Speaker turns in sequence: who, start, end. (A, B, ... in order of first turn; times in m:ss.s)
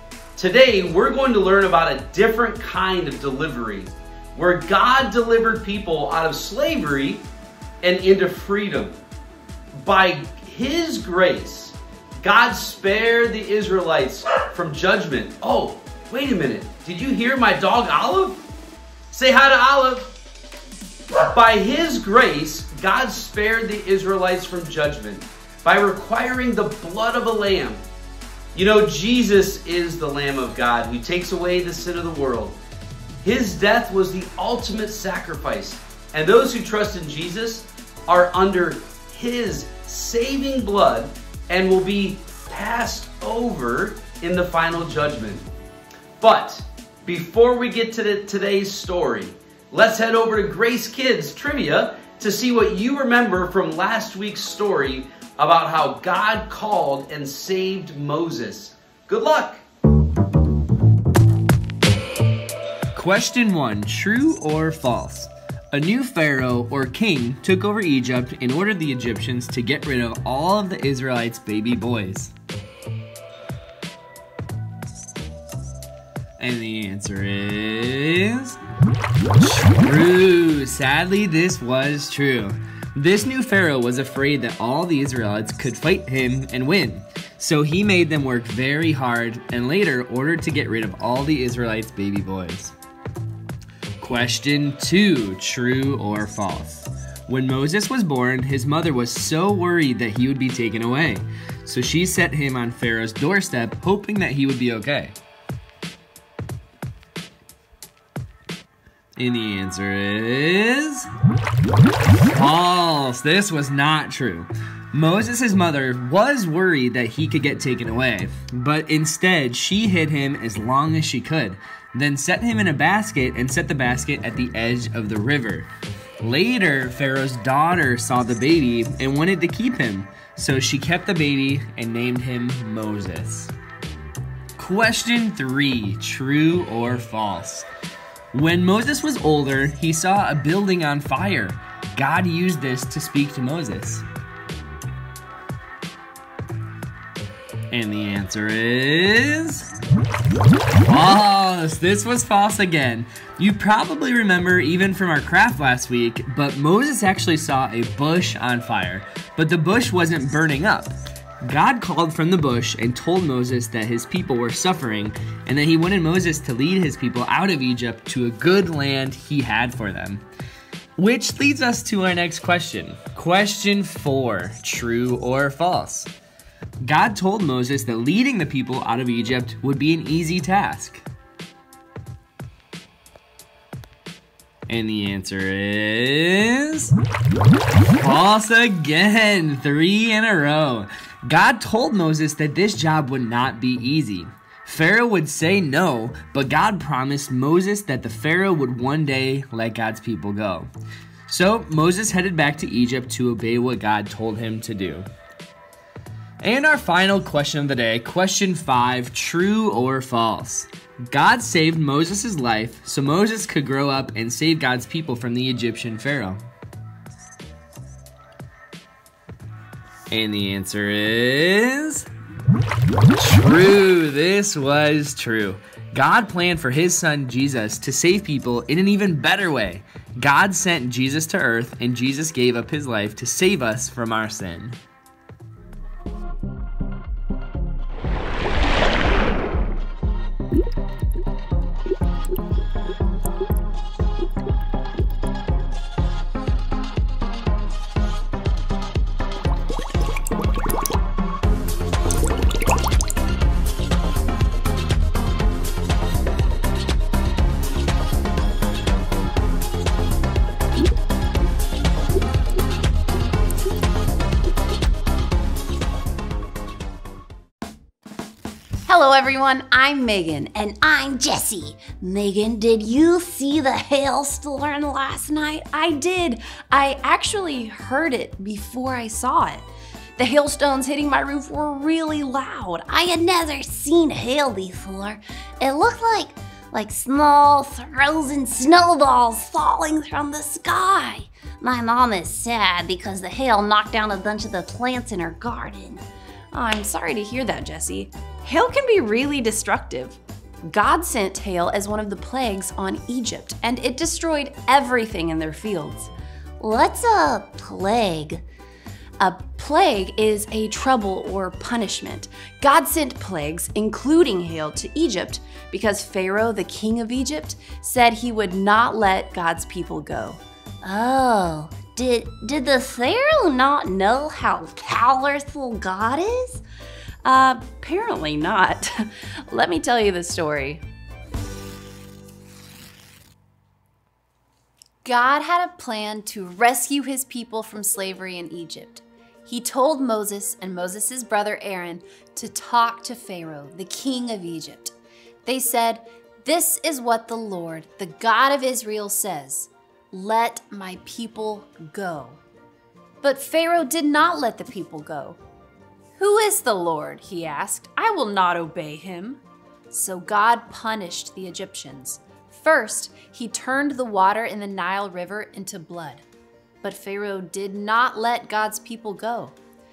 0:00.4-0:07.2 A
0:07.8-0:09.0 A
0:09.8-0:18.4 A
0:19.1-0:20.1 A
0:21.2-0:27.8 A
0:28.5-0:32.6 A
0:33.2-0:45.4 A
0:46.2-0:59.6 A
1:02.9-1:12.3 B
1:16.4-1:18.6 B
1:19.4-1:32.7 B
1:34.0-1:45.2 B
1:49.2-1:51.1 B
1:52.3-2:05.7 B
2:06.2-2:13.5 B
2:14.6-2:17.7 B
2:18.3-2:24.0 B
2:27.7-2:29.7 B
2:30.8-2:50.2 B
2:51.0-2:56.1 B
2:56.8-3:01.0 B
3:04.7-3:06.9 B
3:08.0-3:20.7 B
3:21.3-3:25.1 B
3:26.4-3:36.4 B
3:40.1-3:42.1 B
3:43.2-3:54.8 B
4:28.8-4:39.6 C
4:33.0-4:34.7 D
4:40.2-4:46.2 C
4:43.8-4:54.3 D
4:47.8-4:55.4 C
4:55.1-4:56.0 D
4:56.5-5:06.1 C
5:06.6-5:08.4 C
5:09.2-5:20.4 C
5:20.8-5:26.6 D
5:20.9-5:21.3 C
5:23.3-5:26.4 C
5:27.2-5:28.8 D
5:27.3-5:28.8 C
5:29.5-5:30.8 D
5:29.5-5:30.8 C
5:35.0-5:44.9 C
5:45.4-5:52.4 C
5:53.2-5:55.4 C
5:56.2-6:06.2 C
6:06.8-6:09.6 C